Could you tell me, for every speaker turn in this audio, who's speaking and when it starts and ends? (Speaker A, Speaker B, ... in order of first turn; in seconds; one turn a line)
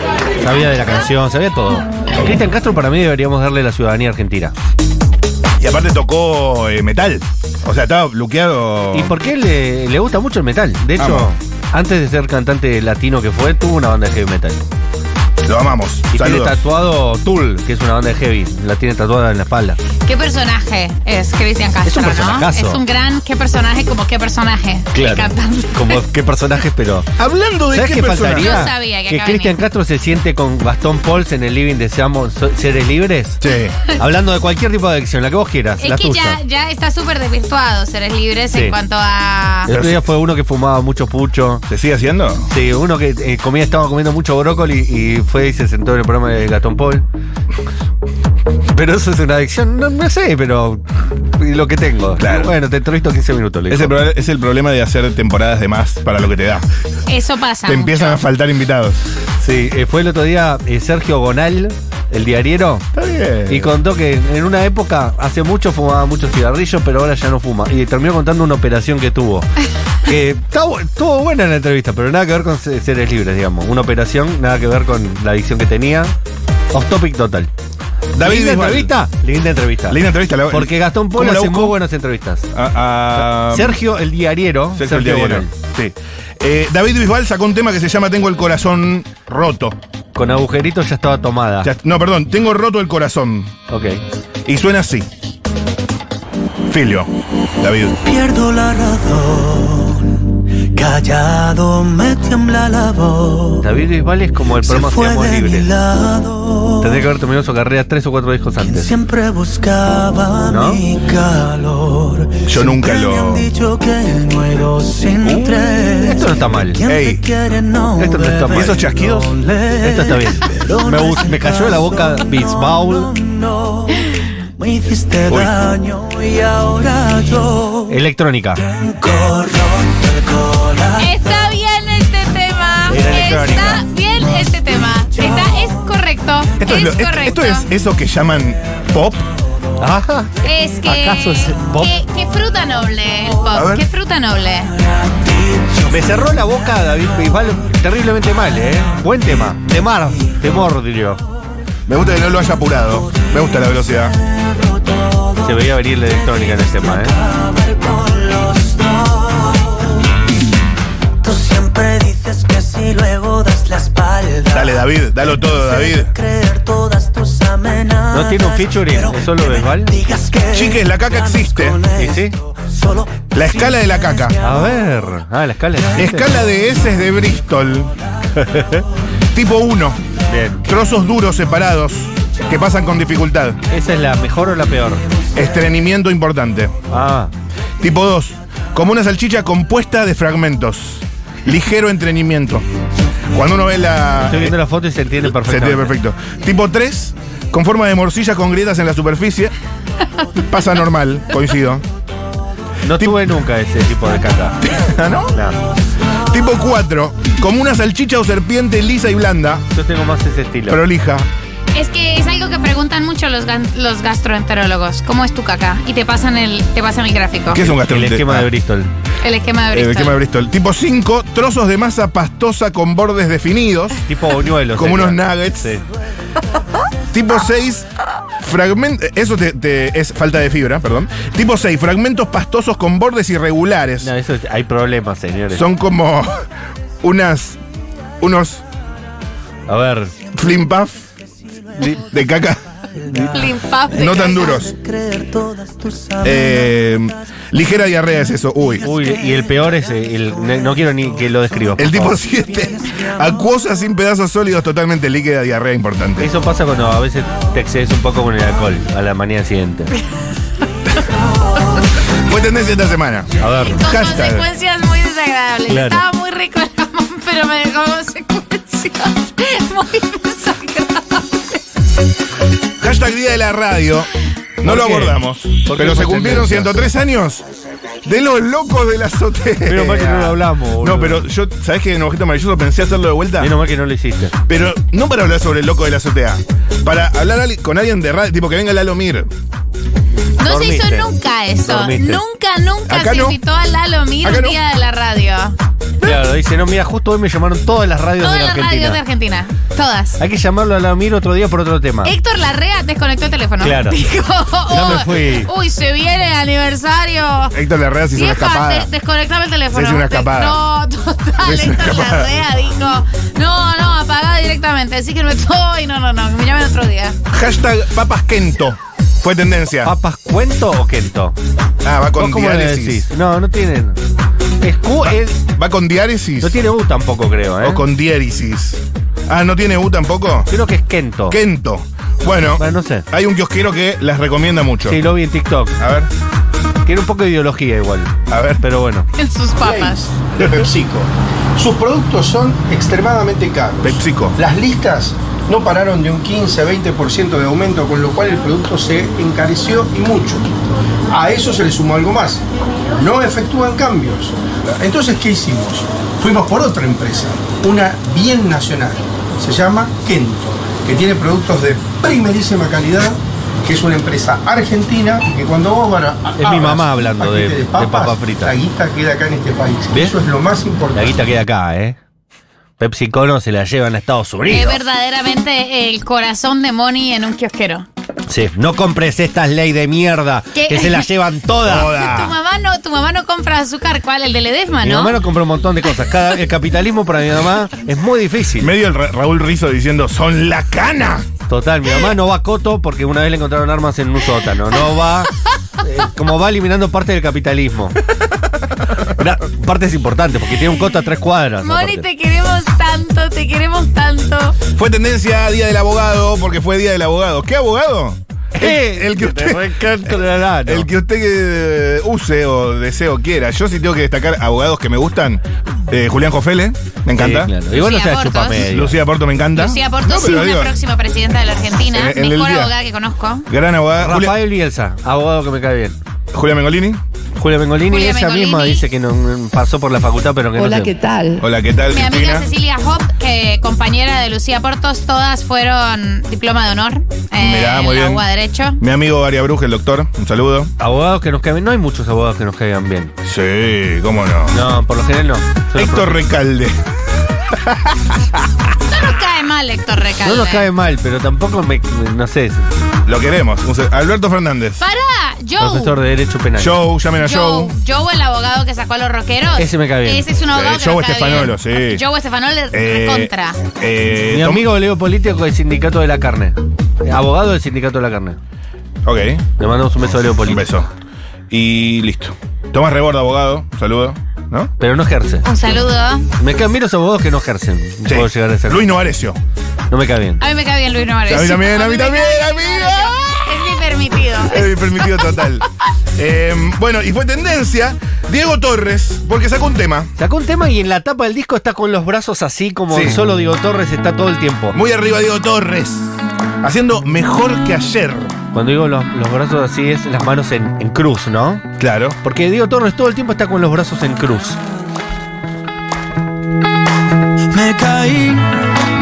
Speaker A: 0.4-4.5
Speaker B: 5.6-9.1
Speaker A: 8.9-14.6
Speaker B: 11.0-11.3
Speaker B: 15.4-16.6
Speaker A: 16.1-19.8
Speaker C: 20.0-26.0
Speaker A: 21.8-22.8
Speaker A: 24.9-27.1
Speaker B: 27.2-28.7
Speaker A: 27.7-33.4
Speaker C: 28.3-29.5
Speaker B: 33.4-33.7
Speaker C: 33.5-34.0
Speaker A: 34.0-36.4
Speaker C: 35.8-39.7
Speaker A: 39.7-41.6
Speaker B: 39.7-40.0
Speaker B: 41.7-42.5
Speaker A: 42.5-47.0
Speaker A: 48.7-50.8
Speaker A: 51.4-54.0
Speaker B: 52.2-52.5
Speaker B: 53.7-56.7
Speaker C: 57.1-58.2
Speaker B: 57.6-59.0
Speaker A: 59.4-62.9
Speaker B: 62.9-63.7
Speaker A: 63.5-69.5
Speaker A: 70.0-76.1
Speaker A: 76.7-77.5
Speaker B: 78.1-78.9
Speaker A: 78.2-82.5
Speaker B: 79.9-81.7
Speaker B: 82.5-83.8
Speaker A: 83.1-85.5
Speaker B: 84.8-89.8
Speaker A: 90.1-91.7
Speaker B: 91.6-93.5
Speaker A: 93.7-94.0
Speaker B: 94.5-95.1
Speaker B: 96.7-97.1
Speaker B: 97.6-98.0
Speaker D: 98.0-100.2
Speaker D: 100.7-103.7
Speaker A: 103.6-105.7
Speaker D: 104.6-107.0
Speaker A: 106.8-109.0
Speaker D: 108.6-127.9
Speaker A: 110.5-110.8
Speaker B: 112.4-113.5
Speaker B: 115.2-115.6
Speaker A: 115.8-116.8
Speaker B: 116.8-117.2
Speaker A: 118.0-118.8
Speaker B: 118.5-119.3
Speaker A: 119.8-123.1
Speaker A: 127.9-128.6
Speaker D: 128.6-131.4
Speaker C: 131.0-137.7
Speaker A: 132.9-133.8
Speaker D: 135.2-135.6
Speaker B: 136.6-139.3
Speaker A: 139.8-141.9
Speaker C: 140.4-144.7
Speaker B: 143.5-143.8
Speaker A: 145.9-151.2
Speaker B: 151.9-154.2
Speaker D: 155.0-155.5
Speaker A: 155.4-157.2
Speaker D: 156.0-159.8
Speaker D: 161.2-174.7
Speaker B: 164.5-166.1
Speaker A: 168.1-169.9
Speaker B: 170.5-171.8
Speaker A: 171.9-172.4
Speaker B: 173.3-174.4
Speaker A: 174.4-176.4
Speaker B: 175.9-177.9
Speaker A: 178.4-178.8
Speaker B: 179.3-180.0
Speaker A: 180.3-180.6
Speaker B: 180.6-183.6
Speaker A: 183.7-185.0
Speaker B: 185.3-186.8
Speaker A: 186.9-187.3
Speaker B: 187.8-192.7
Speaker B: 193.3-194.5
Speaker A: 194.2-195.9
Speaker B: 195.3-199.5
Speaker B: 200.5-201.8
Speaker A: 202.8-204.6
Speaker B: 204.6-205.3
Speaker A: 205.3-205.6
Speaker B: 206.3-209.6
Speaker A: 209.7-210.8
Speaker B: 210.7-211.2
Speaker C: 211.7-217.7
Speaker B: 217.5-218.5
Speaker A: 217.7-218.9
Speaker C: 219.2-220.2
Speaker B: 219.7-224.0
Speaker A: 224.1-225.8
Speaker B: 224.8-225.8
Speaker B: 227.1-227.9
Speaker B: 228.4-234.1
Speaker A: 234.0-235.7
Speaker B: 235.5-236.4
Speaker B: 237.0-237.6
Speaker B: 238.2-238.6
Speaker A: 239.7-240.1
Speaker B: 240.3-241.0
Speaker B: 241.9-242.6
Speaker D: 243.0-246.8
Speaker C: 243.3-244.5
Speaker B: 243.9-244.7
Speaker B: 246.2-248.8
Speaker D: 248.8-250.5
Speaker A: 248.8-252.2
Speaker D: 251.5-253.4
Speaker B: 251.8-256.3
Speaker A: 256.2-259.9
Speaker B: 262.2-264.4
Speaker A: 263.4-263.8
Speaker C: 263.7-271.6
Speaker A: 265.7-266.0
Speaker B: 272.8-277.4
Speaker A: 274.6-276.8
Speaker B: 278.0-283.5
Speaker A: 279.6-281.2
Speaker A: 283.4-284.3
Speaker B: 284.5-289.3
Speaker C: 290.4-295.6
Speaker A: 290.4-291.1
Speaker A: 291.6-292.2
Speaker B: 292.9-293.4
Speaker B: 294.2-294.6
Speaker A: 296.0-299.0
Speaker C: 298.2-300.2
Speaker A: 300.2-302.1
Speaker C: 302.0-307.5
Speaker A: 303.6-304.0
Speaker A: 304.7-305.5
Speaker B: 307.5-308.9
Speaker C: 308.1-317.2
Speaker B: 309.7-310.6
Speaker B: 311.4-312.3
Speaker B: 317.3-319.9
Speaker A: 319.8-321.4
Speaker B: 321.8-323.1
Speaker A: 322.1-324.0
Speaker A: 324.6-325.4
Speaker B: 325.0-326.5
Speaker A: 326.4-327.8
Speaker B: 327.6-330.5
Speaker A: 330.5-331.4
Speaker B: 331.3-335.0
Speaker A: 332.6-333.1
Speaker A: 334.9-335.8
Speaker B: 335.8-336.1
Speaker A: 336.8-339.1
Speaker B: 338.3-338.6
Speaker C: 339.1-340.0
Speaker E: 339.6-350.5
Speaker B: 343.8-344.4
Speaker E: 351.1-371.2
Speaker A: 366.4-368.5
Speaker A: 370.9-372.0
Speaker A: 372.8-374.8
Speaker C: 374.5-377.9
Speaker A: 378.3-381.9
Speaker C: 380.5-381.1
Speaker B: 381.6-382.3
Speaker C: 381.8-385.2
Speaker A: 384.8-388.7
Speaker B: 388.6-391.3
Speaker A: 391.5-398.0
Speaker A: 399.1-402.1
Speaker C: 401.6-404.6
Speaker B: 404.7-417.5
Speaker A: 408.5-410.9
Speaker A: 417.1-419.0
Speaker C: 417.7-418.7
Speaker B: 418.7-420.7
Speaker C: 419.6-423.4
Speaker B: 421.9-422.7
Speaker B: 423.5-424.3
Speaker A: 424.0-426.0
Speaker B: 426.3-427.0
Speaker A: 427.4-431.0
Speaker C: 427.9-428.8
Speaker D: 430.7-431.3
Speaker B: 431.4-432.4
Speaker C: 431.9-438.8
Speaker B: 437.4-438.2
Speaker B: 438.8-440.7
Speaker A: 440.8-443.1
Speaker B: 443.2-444.6
Speaker A: 444.5-446.2
Speaker B: 445.7-446.8
Speaker B: 447.5-448.4
Speaker C: 448.9-450.7
Speaker A: 450.2-452.7
Speaker B: 453.1-454.8
Speaker C: 454.8-456.0
Speaker A: 455.6-456.8
Speaker B: 456.6-457.7
Speaker C: 457.1-463.6
Speaker A: 459.6-460.2
Speaker B: 460.5-462.0
Speaker B: 462.7-464.6
Speaker A: 464.3-468.4
Speaker B: 469.0-469.5
Speaker A: 469.6-470.6
Speaker B: 470.4-470.9
Speaker B: 471.5-474.7
Speaker A: 474.8-475.4
Speaker C: 475.4-476.3
Speaker A: 476.4-479.0
Speaker B: 478.1-479.4
Speaker A: 479.9-480.4
Speaker C: 480.4-485.4
Speaker B: 481.3-483.7
Speaker B: 484.4-490.1
Speaker A: 490.2-494.7
Speaker B: 492.9-493.2
Speaker B: 494.7-498.3
Speaker A: 498.5-501.7
Speaker B: 501.8-502.2
Speaker A: 502.2-504.6
Speaker D: 507.5-508.7